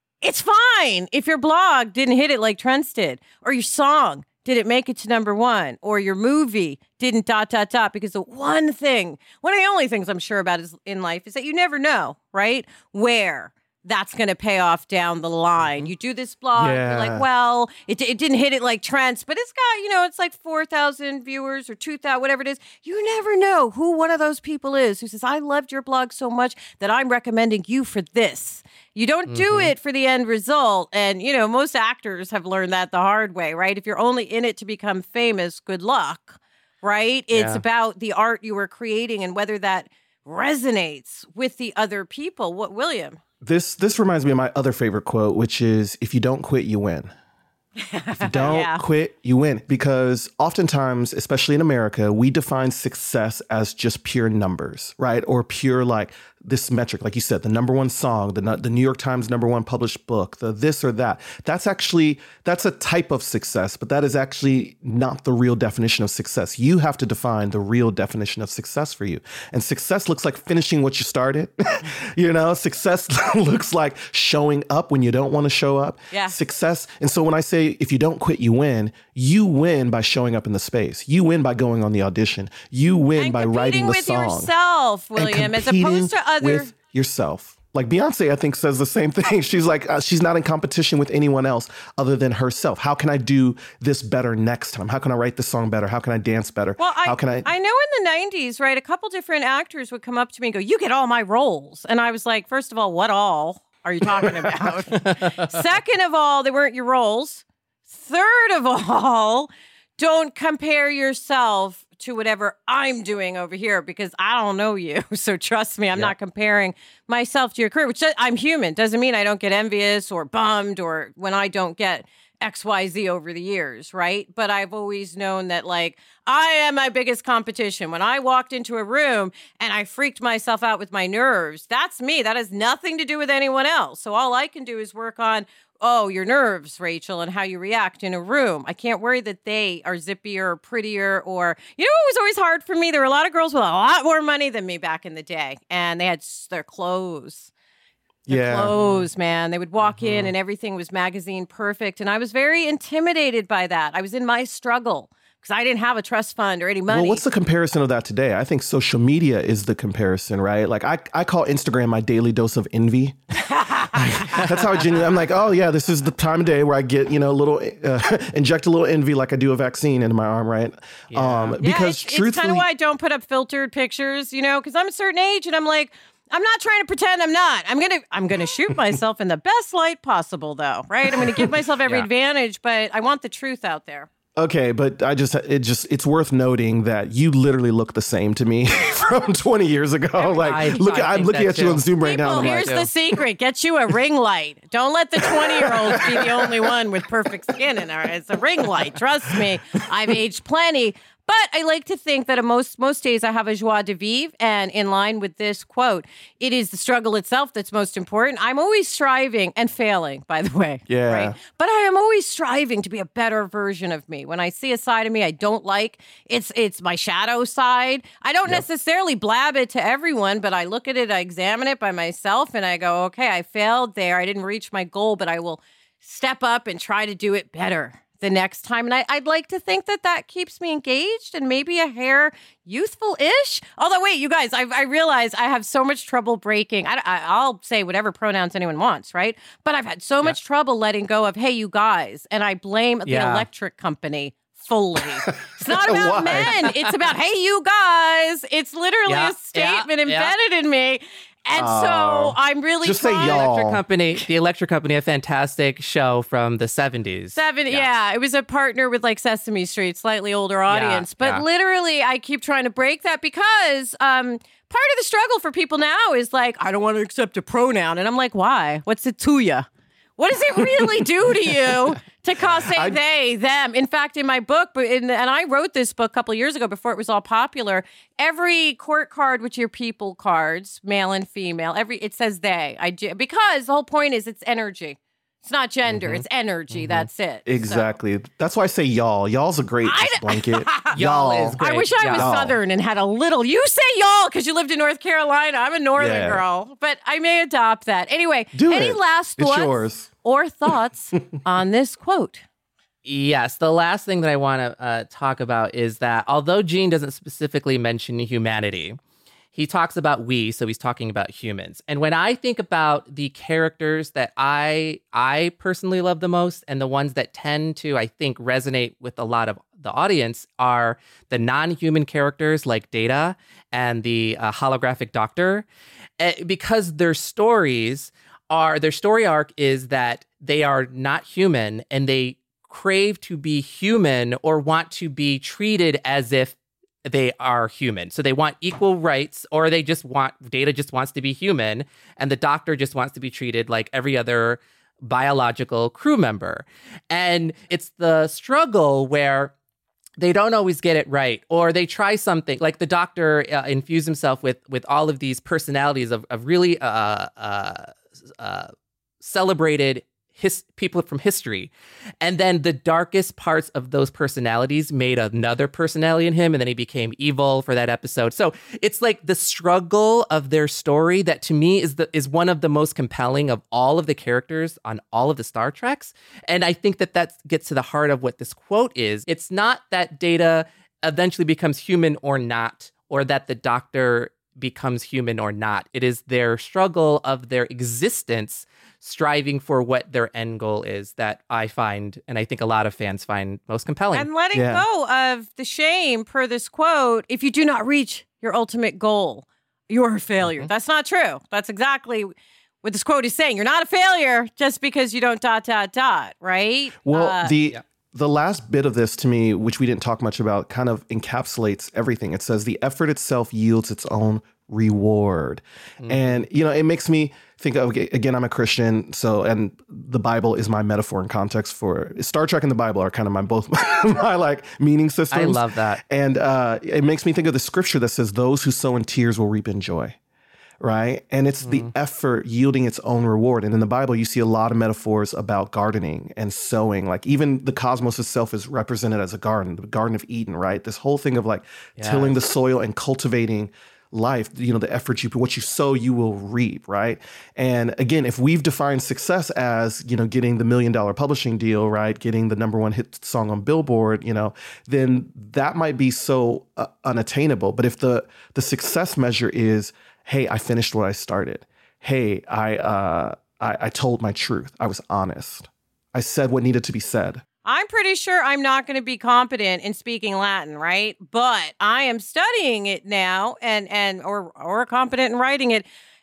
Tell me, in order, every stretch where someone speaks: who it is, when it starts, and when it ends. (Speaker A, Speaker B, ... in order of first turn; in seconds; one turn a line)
Speaker A: 0.2-43.2
Speaker B: 15.6-15.9
Speaker C: 16.5-17.2
Speaker B: 29.3-29.7
Speaker B: 37.3-37.6
Speaker C: 43.4-47.1
Speaker A: 47.8-48.8
Speaker C: 48.2-84.5
Speaker A: 76.1-76.3
Speaker A: 83.2-86.7
Speaker C: 85.2-97.5
Speaker A: 96.8-147.5
Speaker B: 105.0-105.4
Speaker C: 148.2-148.7
Speaker A: 148.3-157.2
Speaker B: 148.7-149.1
Speaker B: 149.8-150.3
Speaker C: 156.9-163.2
Speaker A: 163.5-164.6
Speaker C: 163.9-172.7
Speaker B: 171.1-171.6
Speaker A: 171.6-184.1
Speaker C: 184.3-192.8
Speaker B: 190.2-192.9
Speaker A: 192.0-253.5
Speaker C: 195.2-196.6
Speaker C: 210.9-211.4
Speaker B: 243.0-243.5
Speaker C: 245.2-246.5
Speaker B: 246.3-246.6
Speaker B: 249.1-250.3
Speaker C: 251.5-253.8
Speaker B: 253.2-257.9
Speaker A: 257.3-287.9
Speaker B: 260.7-261.4
Speaker C: 272.5-273.0
Speaker B: 285.9-287.1
Speaker C: 287.4-292.6
Speaker A: 289.8-291.0
Speaker B: 290.9-292.3
Speaker A: 291.5-302.4
Speaker C: 295.9-296.4
Speaker C: 298.5-300.1
Speaker B: 303.0-309.0
Speaker B: 309.5-325.6
Speaker B: 326.2-349.5
Speaker B: 350.2-394.3
Speaker A: 394.1-402.3
Speaker C: 394.5-394.8
Speaker B: 400.4-400.7
Speaker A: 402.8-407.5
Speaker C: 407.0-430.1
Speaker B: 416.0-416.4
Speaker B: 425.3-426.0
Speaker C: 430.8-467.4
Speaker B: 431.6-431.9
Speaker B: 442.0-442.4
Speaker A: 467.6-475.9